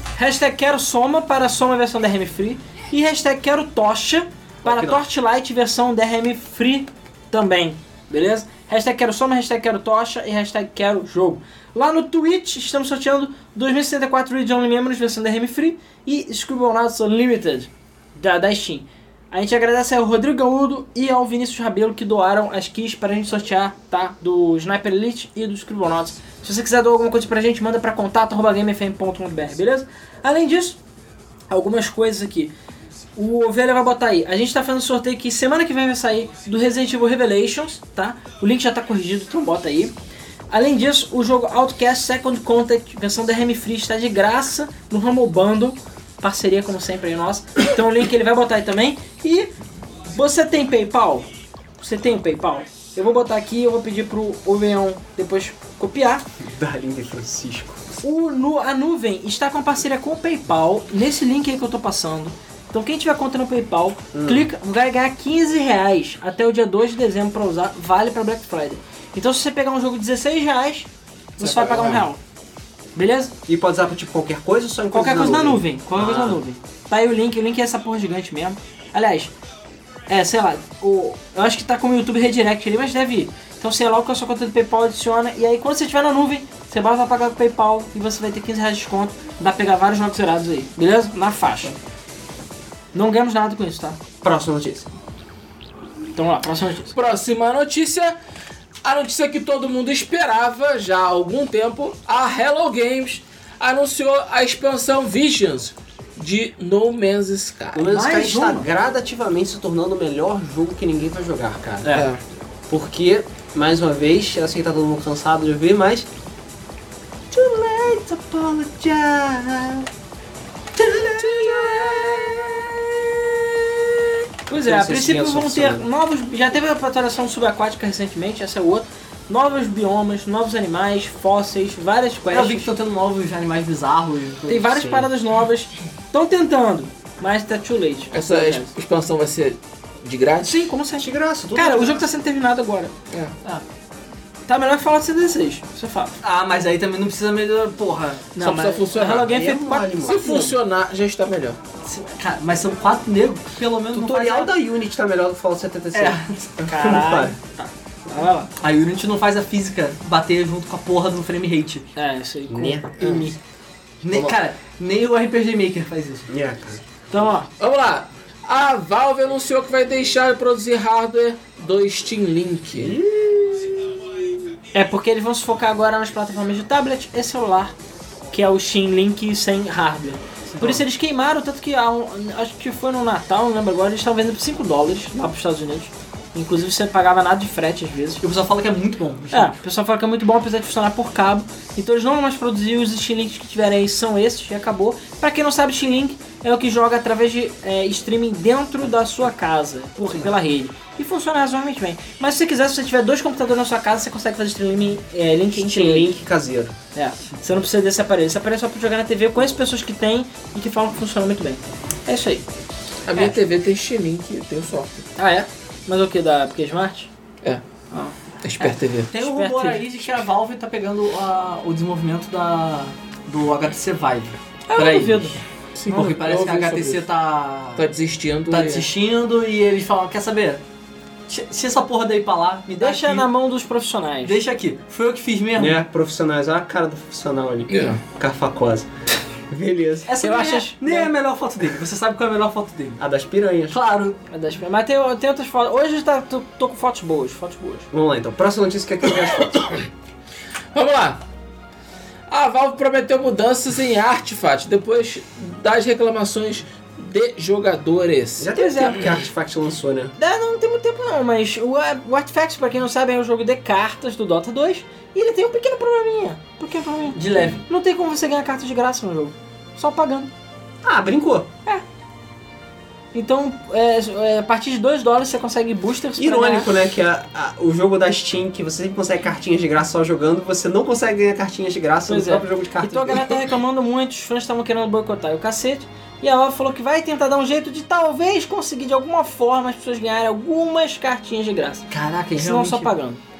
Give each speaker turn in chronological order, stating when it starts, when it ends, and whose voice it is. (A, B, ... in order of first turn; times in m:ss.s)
0:00.1-0:30.8 A
0:04.6-0:05.0 B
0:31.5-0:32.5 A
0:33.1-0:39.9 A
0:40.5-0:49.5 A
0:50.1-0:51.3 A
0:51.8-0:56.2 A
0:56.4-0:57.8 B
0:58.0-1:12.2 A
1:04.1-1:04.5 B
1:11.4-1:12.0 B
1:12.9-1:13.3 A
1:13.4-1:16.4 B
1:14.9-1:19.3 A
1:20.1-1:31.8 A
1:32.9-1:34.0 A
1:34.2-1:34.9 B
1:36.1-1:36.9 A
1:36.9-1:38.2 C
1:38.8-1:47.9 C
1:47.7-1:52.0 B
1:47.9-1:48.7 A
1:51.9-1:52.2 C
1:52.7-1:56.1 B
1:57.3-1:59.9 B
2:00.7-2:04.0 B
2:04.5-2:12.7 A
2:04.5-2:05.8 B
2:12.3-2:14.9 D
2:14.5-2:18.7 A
2:14.8-2:15.1 B
2:18.1-2:20.6 C
2:20.4-2:22.9 A
2:21.0-2:22.0 B
2:24.5-2:26.2 A
2:26.2-2:28.3 D
2:28.3-2:30.5 A
2:28.4-2:29.4 C
2:29.1-2:30.4 B
2:30.0-2:31.6 C
2:31.8-2:34.5 D
2:33.9-2:37.4 B
2:35.9-2:36.5 D
2:36.6-2:38.5 A
2:38.6-2:41.9 D
2:41.9-2:43.2 A
2:42.5-2:43.4 B
2:44.0-2:46.3 D
2:46.3-2:46.8 B
2:47.1-2:47.5 A
2:47.6-2:53.0 C
2:52.7-2:53.9 B
2:54.7-2:57.7 A
2:58.3-3:08.2 A
3:00.6-3:00.8 D
3:08.2-3:09.5 D
3:09.3-3:26.2 A
3:25.5-3:26.7 B
3:26.9-3:32.4 A
3:33.0-3:35.0 C
3:35.2-3:37.1 A
3:37.9-3:39.8 A
3:38.4-3:39.1 C
3:39.1-3:45.1 D
3:44.7-3:45.4 A
3:44.8-3:45.1 C
3:45.7-3:47.1 C
3:45.9-3:47.9 D
3:47.7-3:48.9 C
3:48.5-3:50.6 D
3:51.3-3:53.3 D
3:52.8-3:54.4 A
3:54.2-3:55.8 D
3:55.6-3:58.9 B
3:57.7-3:58.0 C
3:59.5-4:00.1 B
4:00.1-4:03.0 D
4:00.2-4:01.1 A
4:03.0-4:03.8 B
4:03.7-4:04.2 D
4:04.3-4:07.9 A
4:07.9-4:09.8 B
4:10.7-4:11.2 C
4:12.3-4:18.5 C
4:18.4-4:20.1 B
4:18.5-4:19.0 A
4:20.2-4:30.3 A
4:27.1-4:27.6 D
4:30.8-4:31.5 B
4:33.1-4:36.7 A
4:36.2-4:43.4 B
4:42.1-4:53.2 A
4:51.9-4:52.9 D